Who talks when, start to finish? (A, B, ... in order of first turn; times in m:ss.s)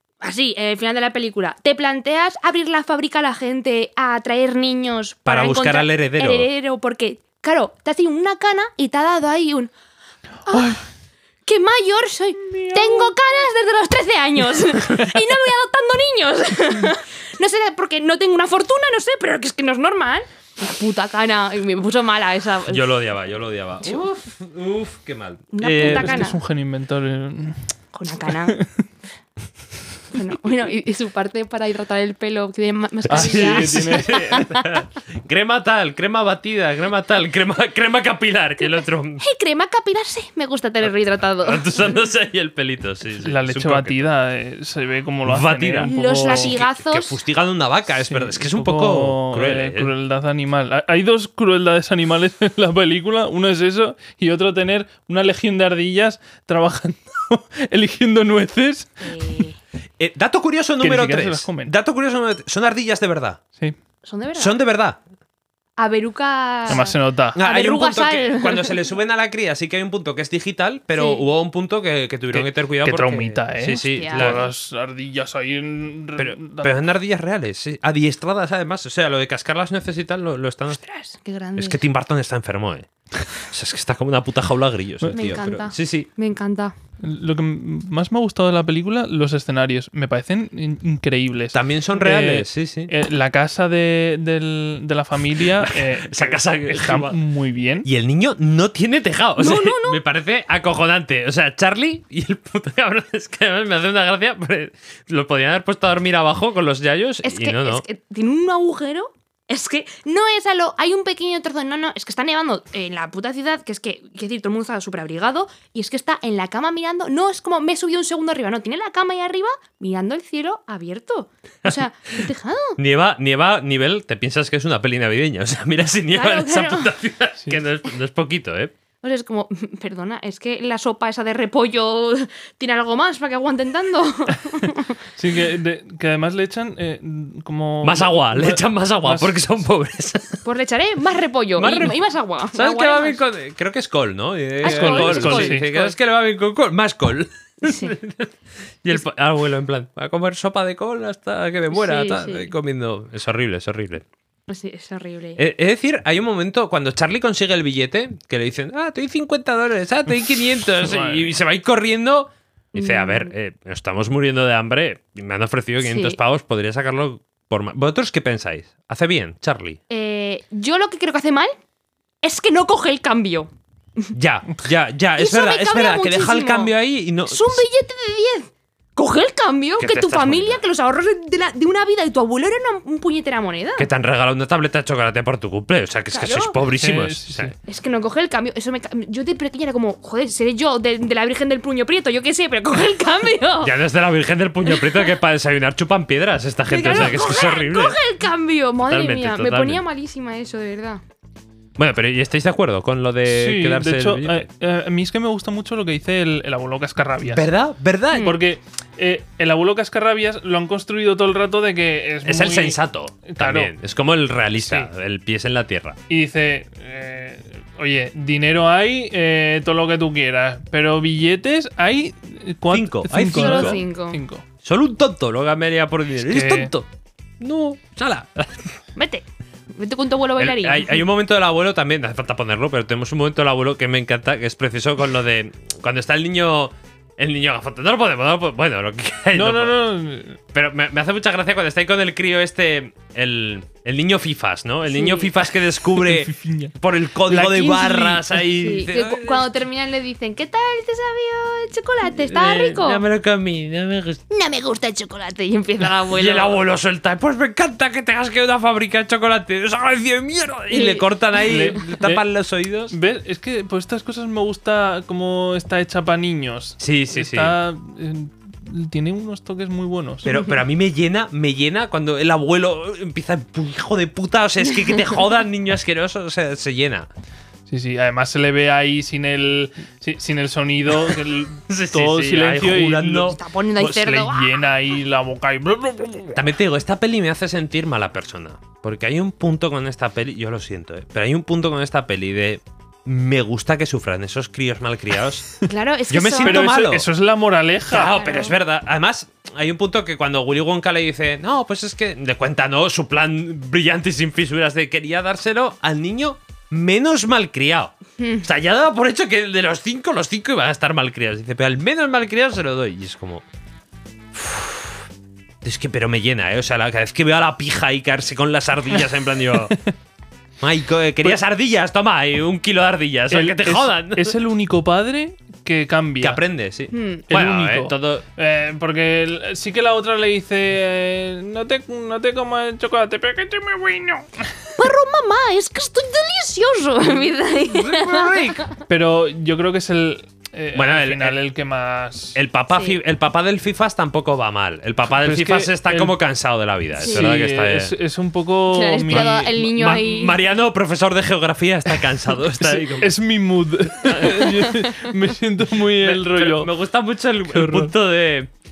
0:00.2-0:09.7 A
0:05.3-0:06.5 B
0:10.5-0:10.8 A
0:10.5-0:10.8 C
0:11.5-0:23.0 A
0:12.4-0:13.1 C
0:22.7-0:26.2 B
0:25.5-0:26.4 A
0:25.8-0:27.6 C
0:27.9-0:28.6 A
0:28.3-0:28.8 C
0:30.1-0:34.4 A
0:33.1-0:39.2 B
0:33.1-0:34.6 C
0:39.2-0:42.0 A
0:40.8-0:44.1 B
0:43.2-0:46.6 C
0:45.2-0:49.9 B
0:45.8-0:47.2 A
0:48.0-0:59.2 C
0:59.0-0:59.6 A
1:00.0-1:03.4 B
1:00.8-1:01.7 C
1:04.0-1:04.6 A
1:04.4-1:05.0 B
1:05.8-1:08.8 A
1:06.7-1:07.4 C
1:07.4-1:14.5 B
1:11.0-1:11.2 A
1:12.3-1:16.8 C
1:13.8-1:14.5 A
1:16.2-1:20.8 B
1:20.7-1:21.8 A
1:21.6-1:26.1 B
1:25.1-1:26.7 A
1:27.0-1:37.9 C
1:31.5-1:32.9 B
1:35.4-1:37.2 B
1:37.8-1:47.8 B
1:39.4-1:40.0 A
1:47.2-2:02.8 A
2:02.8-2:08.7 B
2:06.1-2:06.9 A
2:09.0-2:15.0 A
2:15.2-2:19.6 C
2:17.8-2:20.4 B
2:20.4-2:23.2 A
2:21.6-2:22.0 B
2:22.5-2:34.1 B
2:24.6-2:25.9 A
2:24.6-2:25.6 C
2:27.6-2:28.0 A
2:31.7-2:32.5 A
2:34.5-2:35.4 A
2:35.4-2:49.8 B
2:40.8-2:41.4 C
2:42.8-2:43.3 A
2:45.8-2:46.2 A
2:49.9-2:51.5 A
2:52.2-2:54.1 A
2:54.1-2:57.6 B
2:55.2-2:56.7 A
2:57.3-3:03.9 A
2:59.8-3:00.6 B
3:03.8-3:07.5 B
3:06.1-3:06.6 A
3:06.8-3:07.6 C
3:07.7-3:13.8 A
3:13.6-3:18.0 B
3:14.7-3:15.1 A
3:16.7-3:21.0 A
3:18.8-3:19.8 B
3:21.8-3:24.5 B
3:23.3-3:27.5 C
3:27.3-3:28.3 B
3:28.1-3:28.4 A
3:28.2-3:33.7 C
3:32.2-3:36.0 B
3:34.6-3:34.9 C
3:36.1-3:44.4 C
3:42.7-3:43.8 B
3:43.3-3:44.2 A
3:44.6-3:46.9 B
3:46.3-3:46.7 C
3:47.4-3:48.7 B
3:49.0-3:51.0 A
3:50.4-3:59.8 B
3:59.3-4:00.4 C
4:00.5-4:09.5 B
4:04.9-4:05.4 A
4:06.0-4:06.7 C
4:07.3-4:08.2 C
4:08.5-4:13.0 A
4:12.0-4:14.2 B
4:14.3-4:16.6 A
4:16.1-4:23.0 B
4:20.7-4:21.8 A
4:21.4-4:22.2 C
4:22.9-4:30.3 C
4:26.8-4:27.6 B
4:30.2-4:37.1 B
4:37.7-4:46.6 C
4:41.7-4:43.4 B
4:43.3-4:44.6 A
4:46.4-4:55.5 B
4:55.6-4:56.7 A
4:56.1-4:57.1 B
4:56.4-4:58.2 C
4:57.9-5:13.4 B
4:58.0-4:58.6 A
5:08.2-5:08.5 A
5:14.3-5:15.0 B
5:15.6-5:19.8 B
5:19.5-5:19.8 C
5:20.6-5:24.3 B
5:23.3-5:26.4 C
5:26.2-5:28.2 B
5:26.9-5:27.3 A
5:27.3-5:34.5 C
5:34.8-5:38.7 A
5:37.7-5:38.6 B
5:38.9-5:42.4 C
5:40.7-5:41.4 B
5:42.3-5:47.9 B
5:42.7-5:43.0 A
5:45.1-5:46.2 C
5:47.0-5:47.3 A
5:47.0-5:50.0 C
5:48.7-5:50.4 A
5:49.1-5:53.2 B
5:52.5-5:56.7 C
5:54.0-5:54.7 B
5:54.6-5:54.9 A
5:56.0-5:58.5 B
5:57.5-5:57.9 C